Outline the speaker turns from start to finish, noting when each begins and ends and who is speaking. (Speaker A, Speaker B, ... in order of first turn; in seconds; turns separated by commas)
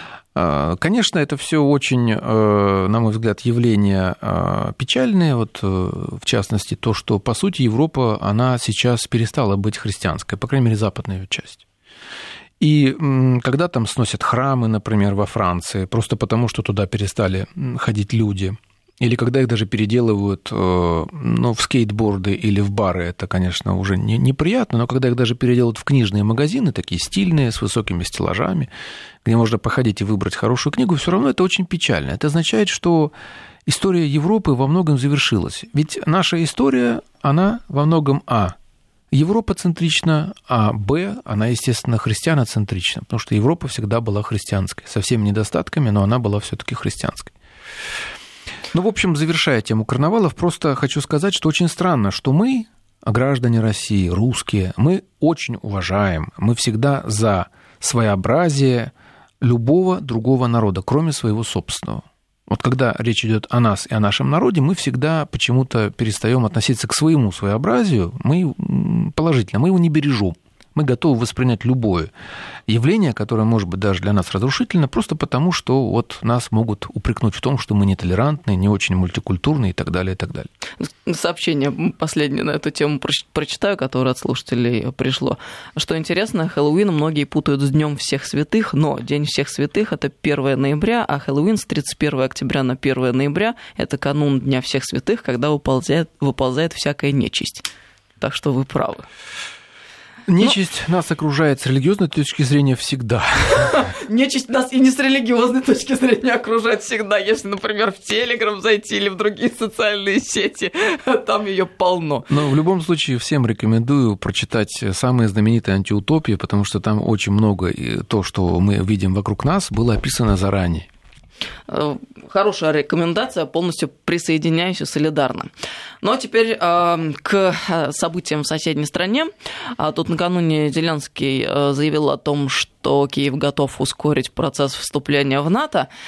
Speaker A: 0.3-11.6, Speaker A: 12.6-28.7, Speaker A: 29.2-33.1, Speaker A: 33.6-38.5, Speaker A: 39.1-47.3, Speaker A: 48.7-72.1, Speaker A: 72.7-80.5, Speaker B: 80.8-97.7, Speaker B: 98.2-99.0, Speaker A: 100.3-103.8, Speaker B: 103.6-112.3, Speaker A: 112.3-120.9, Speaker B: 121.7-125.5, Speaker B: 126.0-135.9